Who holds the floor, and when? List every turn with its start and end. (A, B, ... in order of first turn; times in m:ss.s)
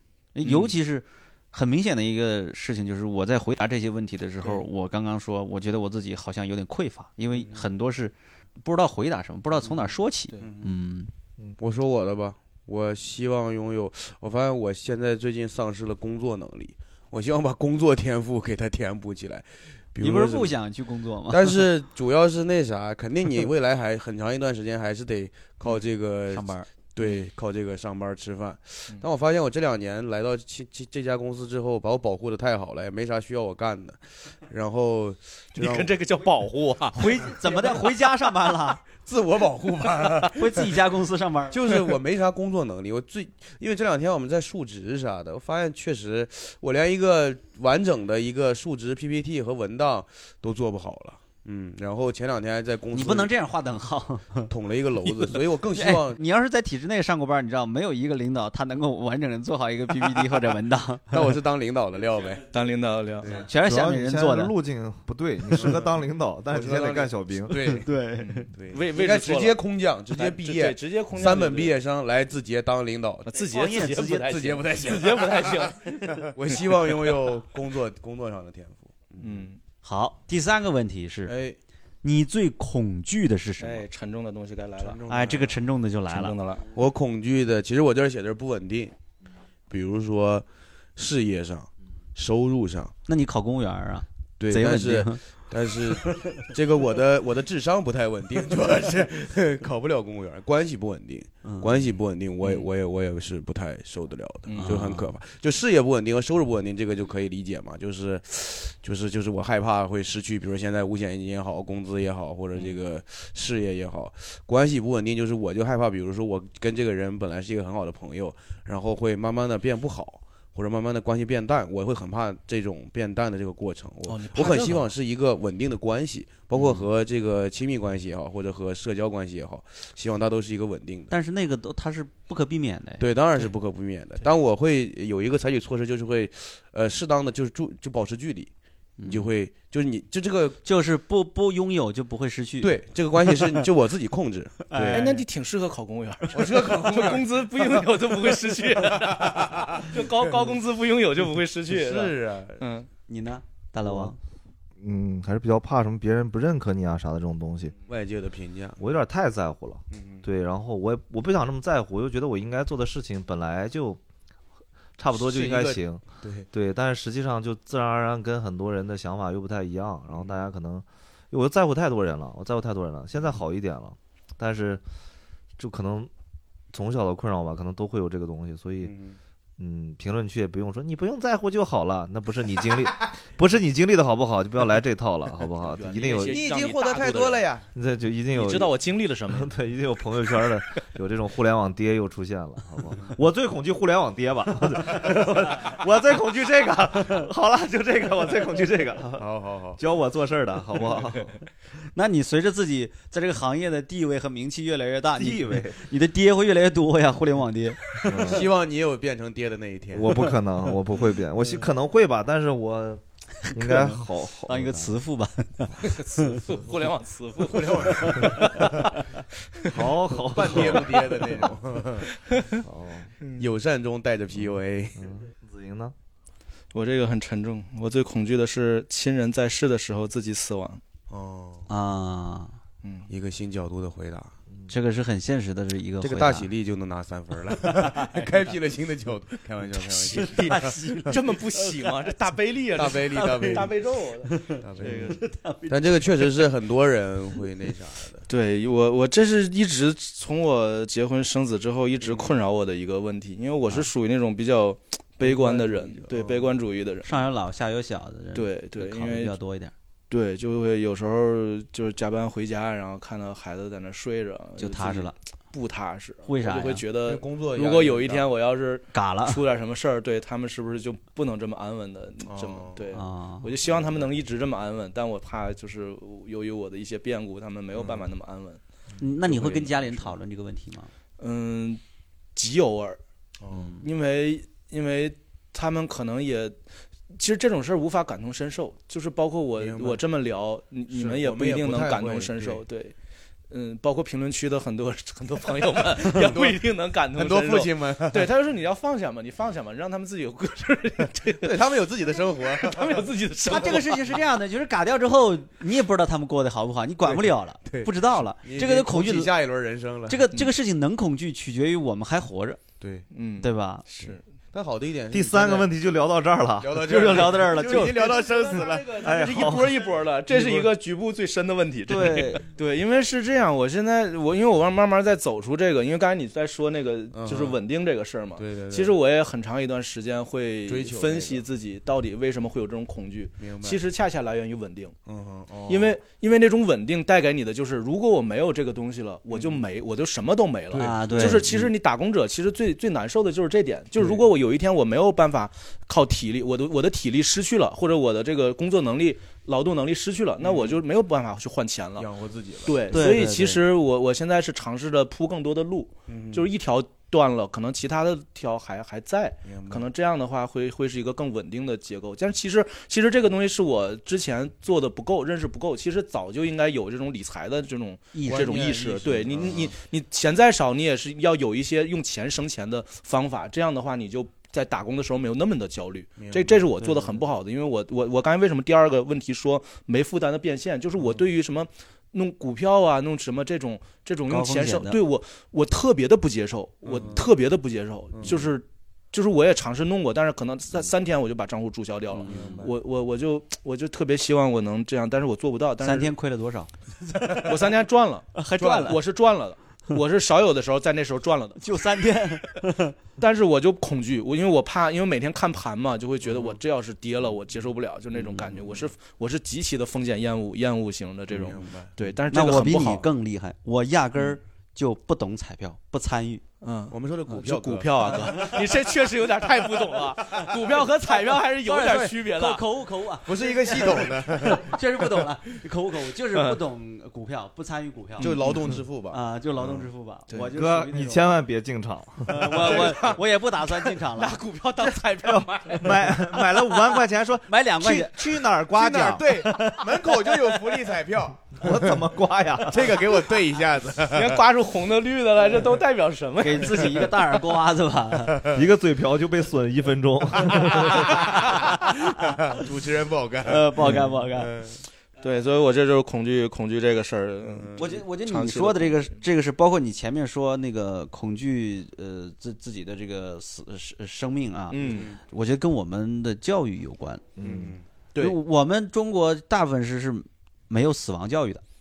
0:00.3-0:11.1 A
0:07.4-0:07.6 B
0:09.6-0:09.9 B
0:10.4-0:10.8 B
0:11.6-0:20.6 B
0:20.0-0:21.6 A
0:21.3-0:35.9 B
0:26.3-0:26.7 A
0:35.5-0:37.6 C
0:36.9-0:38.8 A
0:39.0-0:40.7 B
0:40.3-0:41.6 A
0:41.5-0:53.3 B
0:52.9-0:54.5 A
0:54.5-0:56.2 B
0:55.7-1:01.2 A
1:01.1-1:02.4 B
1:02.5-1:03.4 C
1:03.2-1:03.4 B
1:03.3-1:04.5 A
1:03.6-1:07.6 D
1:05.6-1:05.8 B
1:06.5-1:07.9 B
1:07.6-1:08.5 A
1:08.2-1:09.6 C
1:08.5-1:13.3 B
1:10.1-1:11.8 C
1:13.2-1:16.3 C
1:13.3-1:14.6 A
1:14.2-1:15.7 B
1:16.2-1:19.5 B
1:19.2-1:19.6 C
1:19.8-1:21.3 A
1:21.2-1:21.6 B
1:22.0-1:23.8 A
1:23.6-1:25.0 C
1:24.8-1:25.6 B
1:25.1-1:26.3 A
1:26.1-1:26.6 C
1:26.7-1:28.9 B
1:29.7-1:32.9 B
1:33.1-1:35.2 A
1:34.4-2:11.1 B
1:41.4-1:41.9 A
1:42.4-1:42.7 C
1:44.4-1:44.9 C
1:44.6-1:45.1 A
2:04.0-2:04.9 C
2:06.5-2:06.9 A
2:11.1-2:13.0 A
2:13.0-2:18.5 B
2:19.0-2:19.3 A
2:19.0-2:20.6 B
2:20.6-2:22.8 A
2:22.6-2:25.0 B
2:24.7-2:25.2 A
2:24.9-2:32.9 C
2:26.3-2:27.8 B
2:28.6-2:30.6 B
2:31.7-2:32.6 B
2:33.1-2:34.2 A
2:33.8-2:34.1 D
2:34.8-2:37.7 D
2:37.9-2:38.8 B
2:38.8-2:44.0 D
2:39.9-2:40.2 B
2:45.0-2:54.8 D
2:45.1-2:46.5 B
2:55.6-2:56.1 D
2:56.7-2:58.9 D
2:58.8-2:59.2 B
2:59.6-3:06.4 D
3:05.6-3:07.4 C
3:06.2-3:07.6 B
3:07.7-3:08.7 D
3:08.3-3:09.5 C
3:09.3-3:21.3 D
3:16.9-3:17.2 A
3:19.2-3:19.8 B
3:21.9-3:28.4 A
3:25.2-3:25.8 D
3:28.0-3:28.5 D
3:28.1-3:30.2 B
3:29.9-3:34.9 D
3:33.4-3:36.4 A
3:35.8-3:38.9 C
3:37.4-3:38.7 B
3:38.0-3:38.6 A
3:39.6-3:39.8 C
3:39.6-3:41.5 D
3:40.1-3:42.1 B
3:42.1-3:42.6 C
3:42.6-3:43.1 D
3:43.2-3:43.5 C
3:43.4-3:45.1 B
3:44.4-3:45.9 D
3:46.7-3:50.8 C
3:51.1-3:51.7 B
3:51.7-3:52.6 A
3:52.8-3:53.1 C
3:53.1-3:54.3 B
3:54.7-3:56.5 A
3:56.0-4:00.8 B
3:57.9-3:58.3 A
4:00.0-4:02.1 A
4:00.1-4:05.0 C
4:02.8-4:03.7 B
4:03.1-4:03.7 A
4:04.2-4:06.4 A
4:04.6-4:08.2 B
4:08.3-4:17.2 C
4:12.0-4:12.3 B
4:15.2-4:16.5 B
4:17.0-4:19.7 A
4:18.3-4:19.4 C
4:20.1-4:38.6 C
4:24.6-4:25.1 A
4:26.2-4:26.8 A
4:27.0-4:28.3 B
4:28.9-4:29.4 A
4:32.3-4:33.0 B
4:32.9-4:33.5 A
4:33.7-4:34.0 B
4:37.7-4:38.1 B
4:39.0-4:40.9 A
4:39.3-4:39.7 B
4:41.2-4:41.8 C
4:42.4-4:43.0 C
4:43.4-4:43.8 B
4:43.5-4:43.8 A
4:43.8-4:46.6 C
4:47.1-4:52.9 C
4:49.6-4:50.0 B
4:50.9-4:52.6 B
4:53.5-5:01.6 C
4:56.0-4:56.6 B
4:57.1-4:58.3 B
5:01.4-5:03.8 B
5:02.3-5:04.0 C
5:03.4-5:09.3 A
5:07.0-5:10.2 B
5:10.1-5:12.6 A
5:12.8-5:13.1 B
5:13.1-5:14.2 C
5:13.4-5:13.8 A
5:14.0-5:15.7 B
5:15.1-5:17.4 D
5:16.6-5:19.1 B
5:16.8-5:18.0 A
5:17.6-5:35.0 C
5:18.8-5:20.7 D
5:21.9-5:22.4 A
5:27.1-5:27.6 B
5:28.4-5:29.0 B
5:30.7-5:31.4 B
5:33.4-5:33.8 B
5:35.0-5:36.0 B
5:35.7-5:52.1 C
5:39.3-5:39.6 B
5:40.7-5:41.5 B
5:40.8-5:41.7 A
5:50.4-5:50.8 B
5:52.0-5:52.8 B
5:52.6-6:36.1 C
5:52.9-5:53.6 A
5:56.1-5:56.5 B
5:59.4-5:59.8 B
6:08.1-6:08.6 A
6:08.2-6:09.7 B
6:16.2-6:16.7 B
6:24.3-6:25.0 A
6:26.8-6:27.2 B
6:28.1-6:28.5 B
6:32.1-6:32.7 A
6:32.2-6:32.7 B
6:35.8-6:36.7 A
6:37.3-6:41.8 C
6:38.3-6:39.0 A
6:41.6-6:43.0 A
6:43.2-6:53.1 C
6:46.2-6:46.6 B
6:48.1-6:48.6 A
6:51.3-6:51.9 B
6:52.3-6:56.4 A
6:56.6-7:02.6 C
6:56.9-6:58.6 B
7:00.2-7:00.8 B
7:01.6-7:08.4 A
7:03.2-7:04.8 B
7:08.2-7:09.8 B
7:08.2-7:08.8 C
7:09.1-7:11.3 A
7:10.6-7:12.7 D
7:12.3-7:14.4 A
7:12.5-7:16.2 C
7:15.2-7:19.5 D
7:17.5-7:18.2 A
7:18.7-7:21.9 B
7:19.3-7:19.8 A
7:21.6-7:23.1 D
7:22.7-7:24.4 B
7:24.0-7:27.1 C
7:26.4-7:28.4 A
7:28.3-7:28.6 B
7:28.5-7:31.3 D
7:30.4-7:34.8 B
7:31.6-7:32.3 A
7:33.4-7:34.5 A
7:35.2-7:39.2 C
7:37.4-7:37.9 B
7:37.8-7:47.2 A
7:44.7-7:45.1 C
7:44.8-7:45.2 B
7:47.4-7:47.8 D
7:47.4-7:47.8 B
7:48.2-7:51.6 A